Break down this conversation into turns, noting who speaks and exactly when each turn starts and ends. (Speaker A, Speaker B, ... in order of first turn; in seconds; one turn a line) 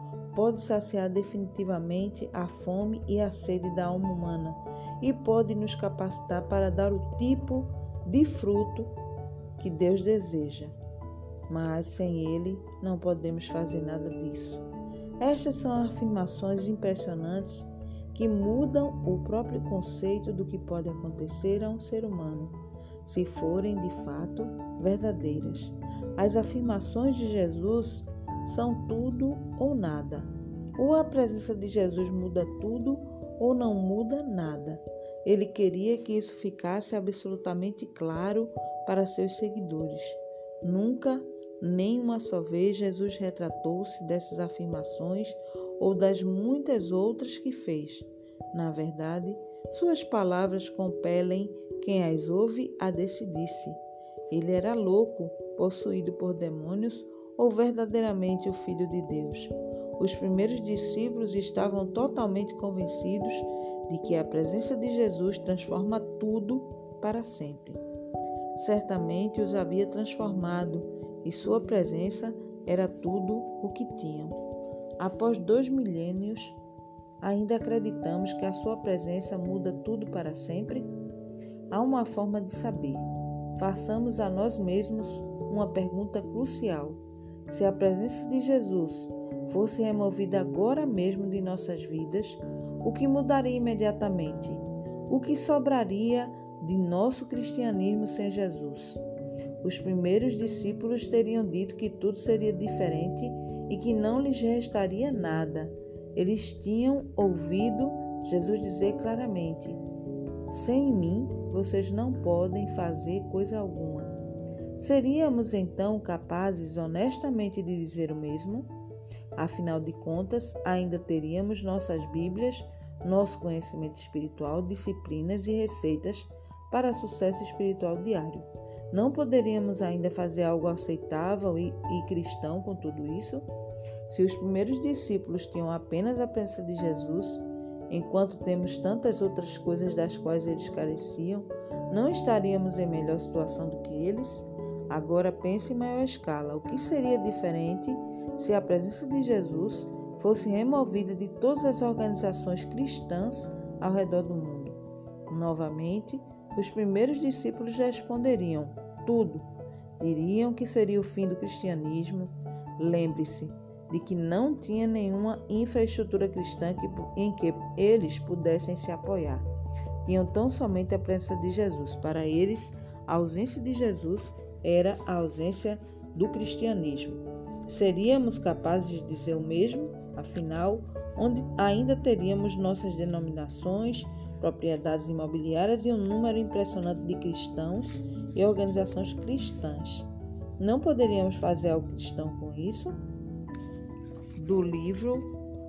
Speaker A: 0.3-8.9
Speaker A: 9.6-10.8
Speaker A: 11.5-14.7
Speaker A: 15.2-67.8
Speaker A: 68.6-74.4
Speaker A: 75.0-76.6
Speaker A: 77.2-80.9
Speaker A: 81.7-83.1
Speaker A: 83.6-99.0
Speaker A: 99.6-109.8
Speaker A: 110.5-114.2
Speaker A: 114.8-118.7
Speaker A: 119.3-133.5
Speaker A: 134.1-159.5
Speaker A: 160.0-169.5
Speaker A: 170.1-193.0
Speaker A: 194.4-195.3